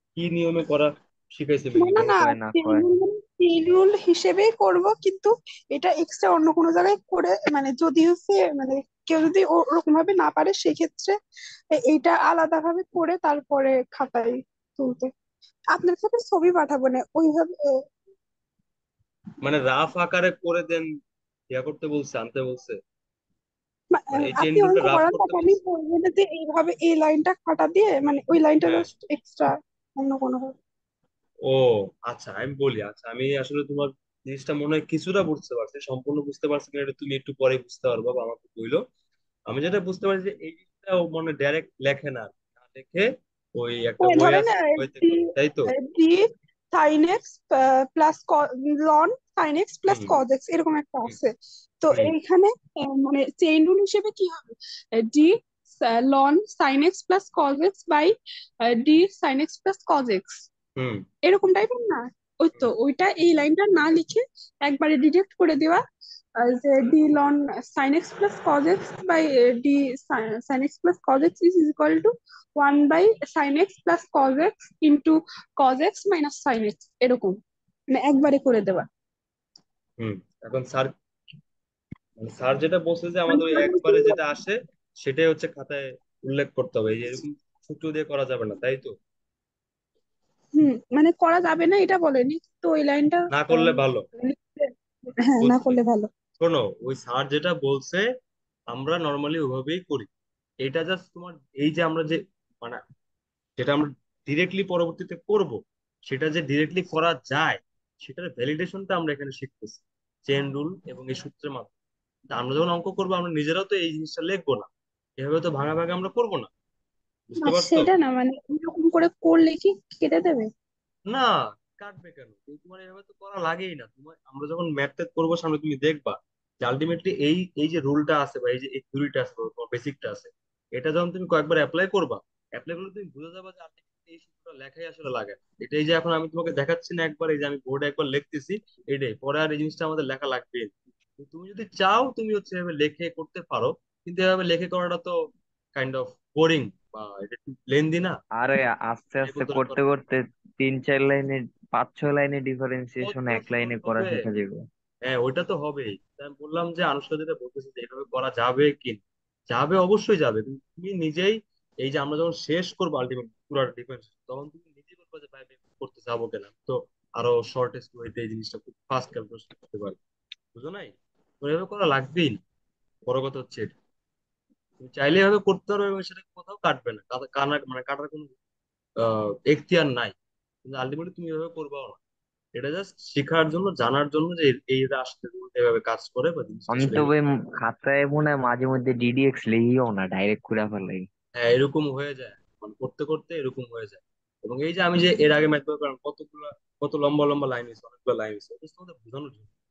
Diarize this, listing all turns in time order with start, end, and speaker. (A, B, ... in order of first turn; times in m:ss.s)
0:00.2-0:02.1 A
0:01.8-0:11.2 B
0:02.0-0:02.9 C
0:11.7-0:15.1 B
0:15.7-0:17.8 B
0:19.4-0:20.9 A
0:21.5-0:22.8 A
0:23.9-0:30.6 B
0:24.2-0:25.6 A
0:28.6-0:28.9 A
0:31.4-0:38.8 A
0:39.5-0:45.7 A
0:44.0-0:51.3 B
0:49.9-0:50.2 A
0:51.8-1:00.5 B
0:51.9-0:52.2 A
1:00.8-1:01.0 A
1:01.2-1:05.8 B
1:06.4-1:17.4 B
1:17.9-1:18.9 B
1:20.0-1:20.9 A
1:22.2-1:28.9 A
1:23.3-1:24.2 B
1:30.6-1:34.7 B
1:33.3-1:34.1 A
1:35.2-1:36.1 B
1:35.4-1:35.8 A
1:36.4-1:38.1 A
1:38.7-1:40.1 A
1:40.6-1:42.8 A
1:43.6-1:51.7 A
1:52.3-1:54.7 A
1:55.2-1:56.5 A
1:57.3-1:57.9 A
1:57.4-2:00.5 B
2:01.1-2:25.2 A
2:25.8-2:28.2 A
2:28.4-2:34.6 C
2:29.2-2:29.8 A
2:33.0-2:34.2 A
2:35.1-2:50.0 A
2:50.6-2:52.4 A
2:53.1-2:53.8 A
2:54.8-2:58.3 A
2:59.0-3:02.0 A
3:02.6-3:07.1 A
3:06.7-3:11.1 C
3:11.4-3:19.5 A